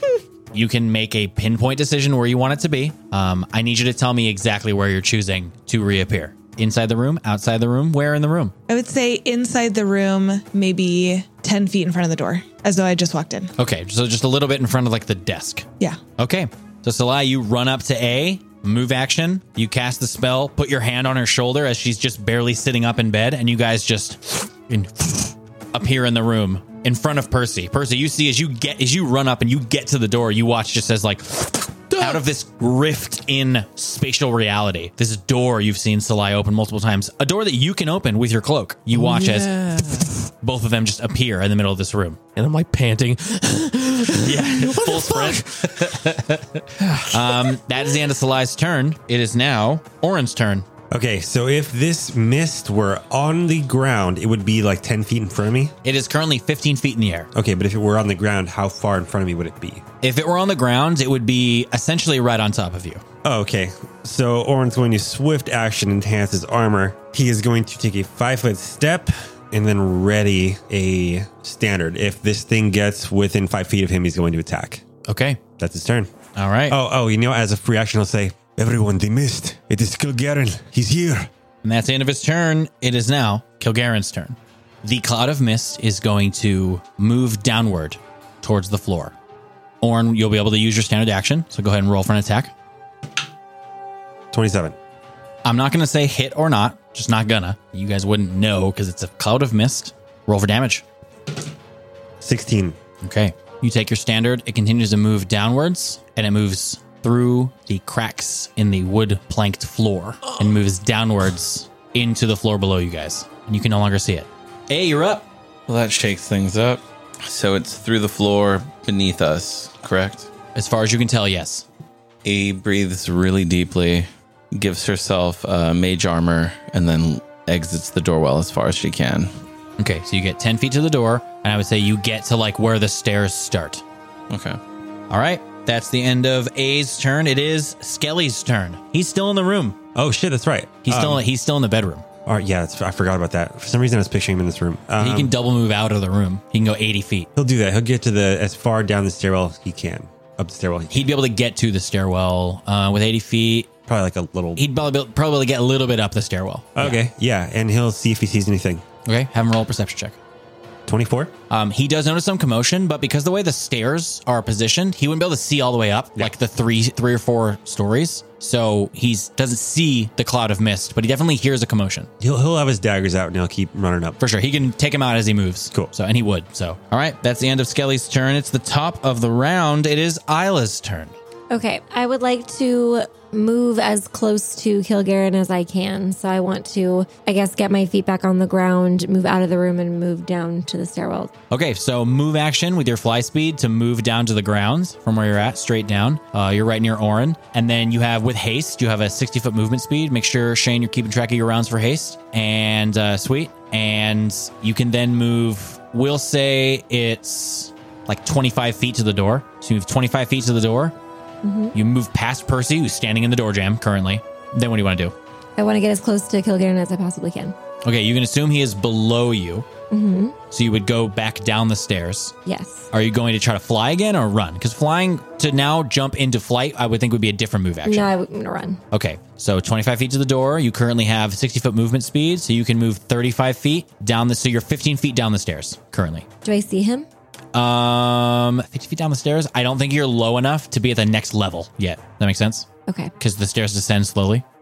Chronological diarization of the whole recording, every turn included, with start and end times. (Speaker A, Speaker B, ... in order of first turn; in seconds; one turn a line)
Speaker A: 0.5-8.5
Speaker B: 8.7-13.5
Speaker A: 13.6-15.6
Speaker A: 16.2-42.2
Speaker C: 31.9-32.2
Speaker C: 38.9-40.2
Speaker C: 42.4-46.1
Speaker A: 44.2-50.6
Speaker C: 46.8-47.6
Speaker D: 50.9-55.7
Speaker A: 55.8-57.3
Speaker D: 57.3-59.8
Speaker A: 60.0-63.0
Speaker D: 63.2-74.8
Speaker A: 75.1-75.4
Speaker D: 75.6-76.1
Speaker A: 76.3-76.8
Speaker D: 76.7-81.3
Speaker A: 81.6-89.1
Speaker A: 89.8-92.5
Speaker D: 94.3-94.8
Speaker A: 95.4-100.8
Speaker D: 102.2-102.8
Speaker A: 103.0-115.2
Speaker E: 115.7-120.3
Speaker A: 120.5-121.6
Speaker E: 122.2-129.3
Speaker A: 129.8-133.8
Speaker E: 134.3-134.6
Speaker A: 135.1-139.8
Speaker D: 139.9-141.2
Speaker A: 140.8-142.0
Speaker D: 142.2-145.3
Speaker A: 145.0-147.3
Speaker D: 147.3-151.1
Speaker A: 150.9-153.7
Speaker D: 153.9-154.6
Speaker A: 154.6-157.0
Speaker D: 156.8-158.8
Speaker A: 159.1-160.2
Speaker D: 160.9-161.3
Speaker A: 161.5-172.1
Speaker D: 172.2-174.2
Speaker A: 174.2-181.1
Speaker F: 181.5-191.3
Speaker A: 191.5-210.9
Speaker F: 211.4-211.7
Speaker A: 211.7-215.1
Speaker F: 215.6-217.5
Speaker A: 217.8-219.7
Speaker F: 219.9-220.3
Speaker A: 220.5-222.3
Speaker F: 222.4-222.9
Speaker A: 222.9-228.1
Speaker F: 227.8-228.8
Speaker A: 228.9-236.2
Speaker F: 236.4-237.1
Speaker A: 237.5-242.7
Speaker F: 242.9-243.1
Speaker A: 243.2-244.4